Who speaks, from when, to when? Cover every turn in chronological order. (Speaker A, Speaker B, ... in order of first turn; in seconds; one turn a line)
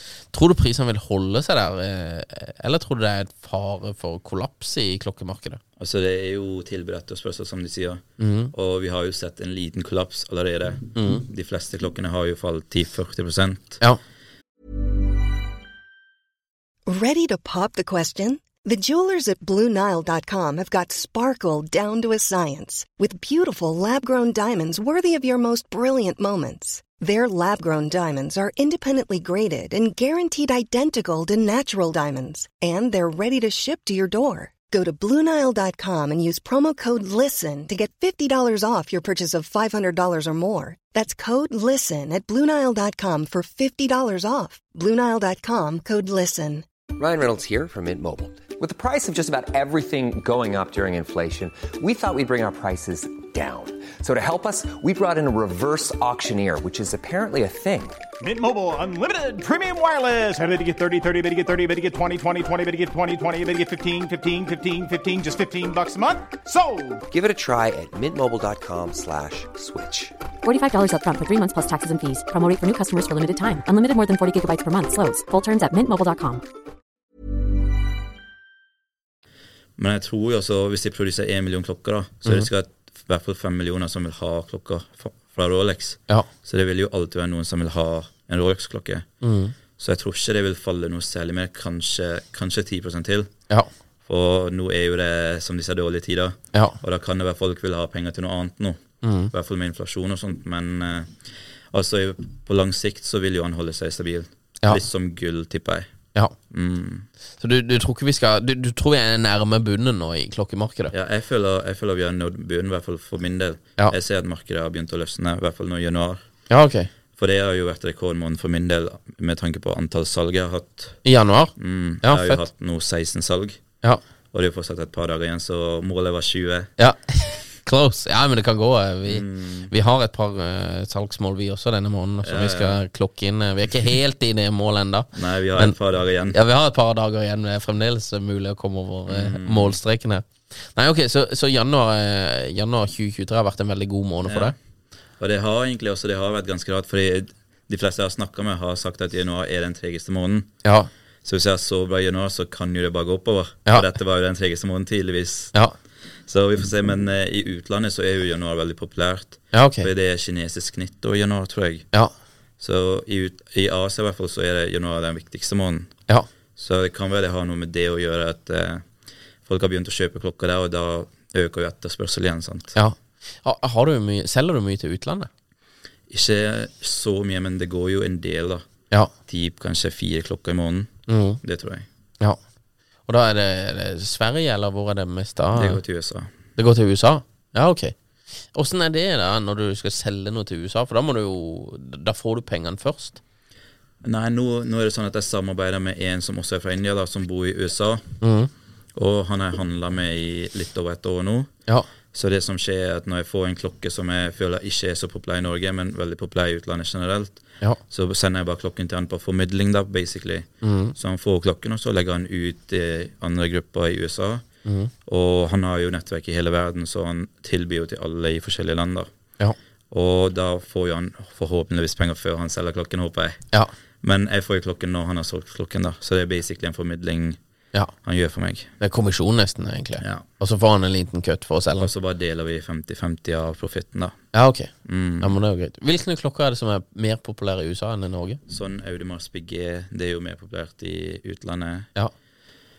Speaker A: 0.3-5.6
Speaker B: 5.8-13.8
Speaker A: 8.2-8.5
Speaker A: 10.9-11.2
Speaker C: 16.9-46.6
Speaker D: 47.0-58.0
Speaker E: 58.2-67.0
Speaker D: 67.1-70.2
Speaker F: 70.4-76.4
Speaker B: 79.8-89.1
Speaker A: 89.2-89.5
Speaker B: 89.8-93.3
Speaker B: 94.0-101.2
Speaker A: 99.0-99.3
Speaker B: 101.7-105.9
Speaker B: 106.5-107.1
Speaker A: 107.4-110.9
Speaker B: 110.9-116.2
Speaker A: 116.5-116.9
Speaker B: 117.2-121.0
Speaker A: 121.0-122.4
Speaker B: 121.6-123.6
Speaker B: 124.3-126.7
Speaker A: 126.8-135.8
Speaker B: 129.0-129.7
Speaker B: 132.2-132.8
Speaker B: 135.1-136.4
Speaker A: 136.3-144.6
Speaker B: 139.1-139.8
Speaker B: 144.2-144.6
Speaker B: 145.2-150.5
Speaker A: 150.6-150.9
Speaker B: 151.2-155.5
Speaker B: 156.3-161.9
Speaker A: 159.5-159.9
Speaker B: 162.6-165.9
Speaker B: 166.6-168.9
Speaker B: 169.4-172.8
Speaker A: 172.8-175.3
Speaker B: 176.1-178.7
Speaker B: 179.3-180.9
Speaker A: 181.1-181.4
Speaker B: 181.4-181.9
Speaker A: 183.1-185.8
Speaker B: 185.5-186.3
Speaker A: 186.6-187.9
Speaker A: 188.5-193.2
Speaker B: 194.0-198.1
Speaker A: 198.2-198.5
Speaker B: 198.9-201.5
Speaker B: 202.1-214.4
Speaker A: 210.6-210.9
Speaker A: 214.7-214.9
Speaker B: 215.1-219.1
Speaker B: 219.9-223.4
Speaker B: 224.0-227.4
Speaker B: 228.0-228.7
Speaker A: 228.8-231.9
Speaker B: 230.0-230.3
Speaker B: 231.8-234.2
Speaker A: 234.3-238.4
Speaker B: 234.8-235.3
Speaker B: 238.5-241.9